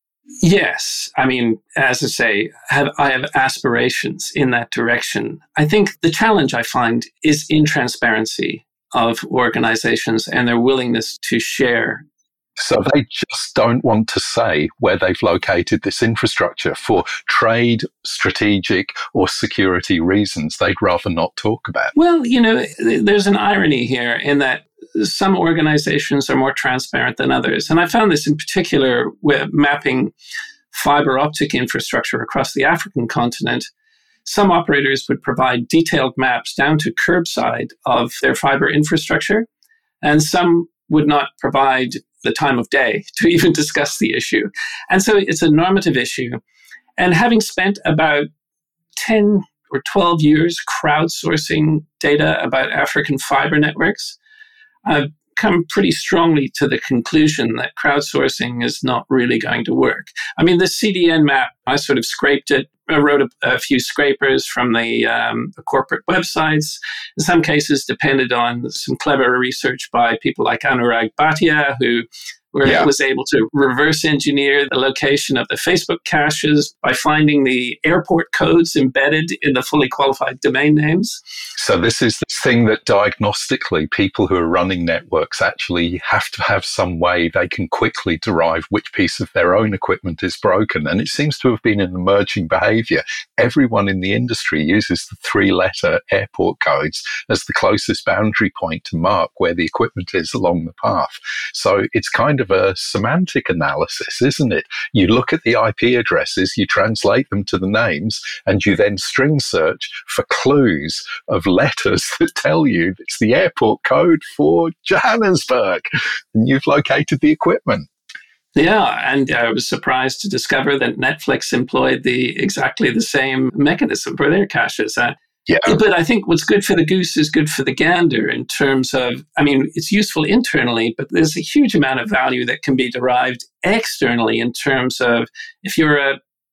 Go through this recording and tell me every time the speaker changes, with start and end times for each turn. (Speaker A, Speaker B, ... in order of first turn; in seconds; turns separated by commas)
Speaker A: 0.4-12.1, Speaker B: 12.6-21.9, Speaker A: 21.9-30.1, Speaker A: 30.7-33.7, Speaker A: 34.2-39.5, Speaker A: 40.0-46.4, Speaker A: 47.0-48.3, Speaker A: 49.0-54.2, Speaker A: 54.8-81.2, Speaker B: 72.6-72.9, Speaker B: 81.6-117.9, Speaker A: 118.5-136.2, Speaker B: 125.5-125.8